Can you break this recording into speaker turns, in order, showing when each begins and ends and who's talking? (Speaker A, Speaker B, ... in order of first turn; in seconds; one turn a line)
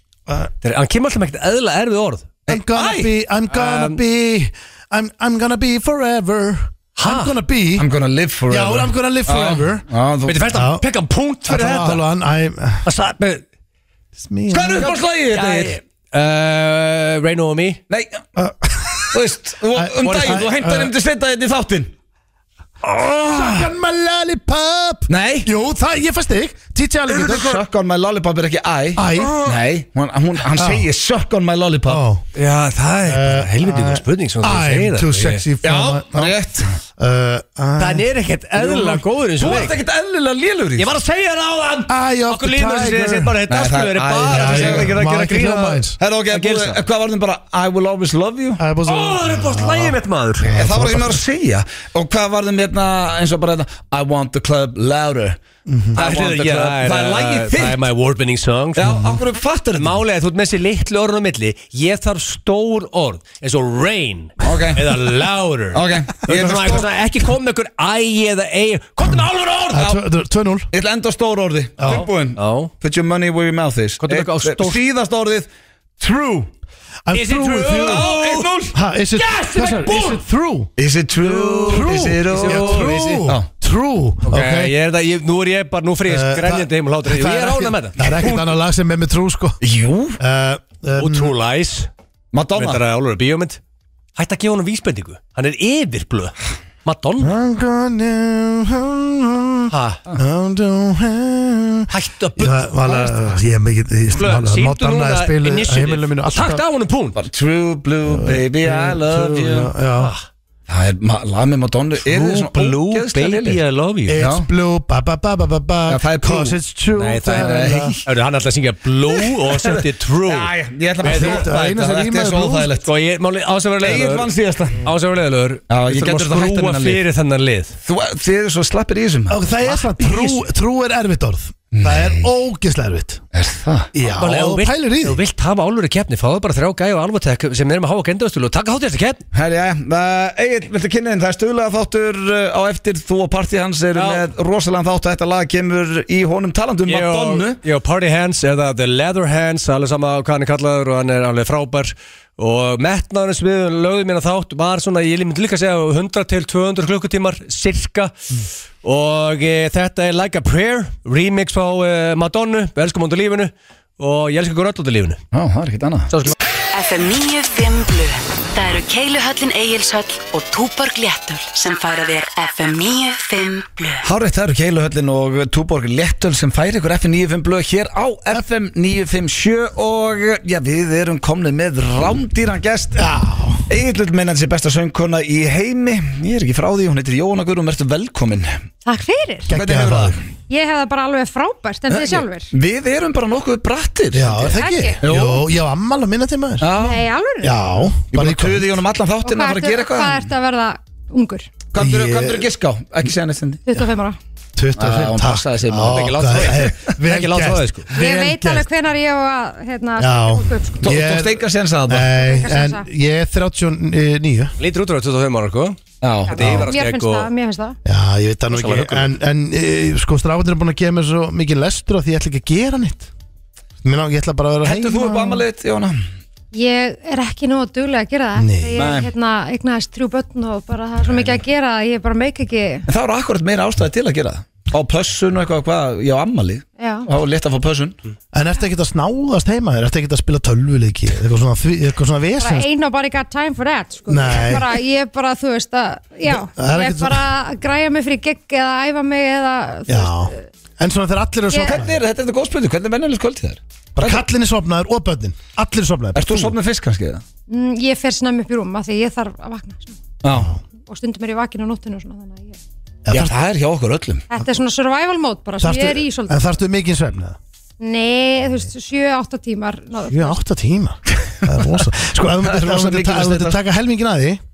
Speaker A: 0.6-2.4
Speaker B: 2.5-3.1
Speaker C: 2.5-7.9
Speaker A: 3.5-4.0
Speaker A: 7.0-7.3
Speaker B: 7.8-10.5
Speaker C: 8.5-9.8
Speaker A: 10.3-12.0
Speaker C: 10.5-10.8
Speaker C: 11.4-12.8
Speaker A: 12.9-13.4
Speaker C: 14.2-14.9
Speaker B: 14.5-15.8
Speaker A: 14.8-17.8
Speaker B: 17.9-18.2
Speaker C: 18.4-20.9
Speaker B: 19.1-21.9
Speaker A: 20.0-20.4
Speaker C: 22.8-27.6
Speaker B: 25.1-25.5
Speaker B: 27.1-32.0
Speaker C: 28.9-29.6
Speaker C: 30.5-30.9
Speaker C: 31.9-32.2
Speaker A: 32.4-35.4
Speaker C: 33.0-38.1
Speaker B: 35.6-36.8
Speaker A: 37.8-39.8
Speaker B: 38.6-40.9
Speaker A: 40.8-46.8
Speaker C: 41.9-43.4
Speaker B: 43.5-45.0
Speaker C: 44.3-46.0
Speaker B: 46.0-48.6
Speaker C: 48.6-51.2
Speaker A: 48.8-50.6
Speaker B: 50.5-55.4
Speaker C: 55.7-56.0
Speaker B: 55.9-57.8
Speaker A: 56.0-59.1
Speaker B: 58.8-60.0
Speaker A: 59.7-69.9
Speaker B: 64.4-65.1
Speaker B: 65.7-66.9
Speaker C: 69.7-70.7
Speaker B: 69.7-70.0
Speaker B: 70.7-75.5
Speaker C: 71.8-72.0
Speaker A: 71.8-72.7
Speaker A: 74.0-74.8
Speaker B: 76.0-76.5
Speaker C: 77.1-78.1
Speaker A: 77.1-78.5
Speaker B: 77.8-78.7
Speaker C: 78.7-80.7
Speaker A: 79.1-80.2
Speaker B: 80.8-83.5
Speaker A: 81.2-83.3
Speaker C: 81.6-84.7
Speaker A: 84.3-88.0
Speaker C: 86.1-89.6
Speaker B: 88.0-88.4
Speaker B: 89.6-90.2
Speaker C: 90.2-91.3
Speaker A: 91.0-91.9
Speaker B: 92.3-92.8
Speaker A: 92.6-93.6
Speaker A: 94.2-96.3
Speaker A: 96.8-97.3
Speaker C: 97.2-106.6
Speaker A: 99.7-100.0
Speaker A: 101.9-103.4
Speaker A: 104.1-107.2
Speaker B: 107.1-109.7
Speaker C: 108.1-110.1
Speaker A: 110.0-110.2
Speaker B: 110.7-113.6
Speaker A: 112.1-114.2
Speaker C: 114.1-118.0
Speaker B: 114.2-114.5
Speaker B: 115.9-116.6
Speaker A: 117.0-120.5
Speaker B: 117.3-118.0
Speaker B: 119.1-122.9
Speaker A: 121.0-121.4
Speaker C: 121.0-122.7
Speaker A: 122.8-124.3
Speaker B: 123.8-124.8
Speaker A: 124.8-127.8
Speaker B: 125.7-127.0
Speaker B: 127.8-129.4
Speaker C: 129.3-133.2
Speaker A: 129.7-130.4
Speaker B: 131.7-132.3
Speaker B: 133.3-133.9
Speaker C: 133.9-135.2
Speaker A: 134.2-139.2
Speaker B: 139.3-147.6
Speaker A: 143.9-144.2
Speaker A: 146.9-158.1
Speaker A: 158.8-165.2
Speaker B: 165.3-166.1
Speaker D: 166.7-174.1
Speaker B: 174.0-183.1
Speaker C: 182.9-183.6
Speaker B: 183.7-188.6
Speaker E: 188.8-189.5
Speaker C: 189.5-190.2
Speaker B: 189.5-190.2
Speaker E: 190.5-192.5
Speaker B: 191.9-195.4
Speaker C: 194.1-196.7
Speaker E: 194.6-195.0
Speaker B: 196.6-197.1
Speaker E: 196.8-197.6
Speaker C: 197.4-198.8
Speaker B: 198.1-200.3
Speaker E: 199.2-201.5
Speaker B: 201.7-203.7
Speaker C: 201.8-202.5
Speaker E: 203.7-204.2
Speaker C: 204.6-208.7
Speaker B: 204.8-206.8
Speaker A: 205.9-207.9
Speaker E: 207.9-210.8
Speaker C: 210.0-214.5
Speaker B: 210.8-212.1
Speaker E: 212.1-212.9
Speaker A: 214.6-215.8
Speaker B: 216.0-216.6
Speaker E: 216.3-217.8
Speaker A: 216.3-217.3
Speaker C: 216.4-216.7
Speaker C: 217.8-223.1
Speaker A: 218.5-219.1
Speaker C: 223.8-225.4
Speaker B: 224.6-226.0
Speaker E: 226.5-232.8
Speaker C: 228.3-228.9
Speaker B: 228.7-229.1
Speaker B: 232.9-238.0
Speaker E: 236.8-237.1
Speaker C: 238.3-242.7
Speaker E: 242.4-250.4
Speaker C: 244.1-244.7
Speaker C: 246.3-247.2
Speaker C: 249.9-252.0
Speaker E: 251.5-251.8
Speaker B: 251.6-254.2
Speaker C: 254.0-256.6
Speaker B: 256.1-257.2
Speaker E: 257.5-260.0
Speaker B: 260.2-260.5
Speaker C: 260.3-260.6
Speaker E: 260.8-262.6
Speaker C: 263.1-263.3
Speaker B: 263.1-264.2
Speaker E: 264.3-266.5
Speaker C: 265.6-267.4
Speaker E: 267.8-270.4
Speaker C: 270.1-274.4
Speaker B: 271.2-271.6
Speaker B: 272.4-273.6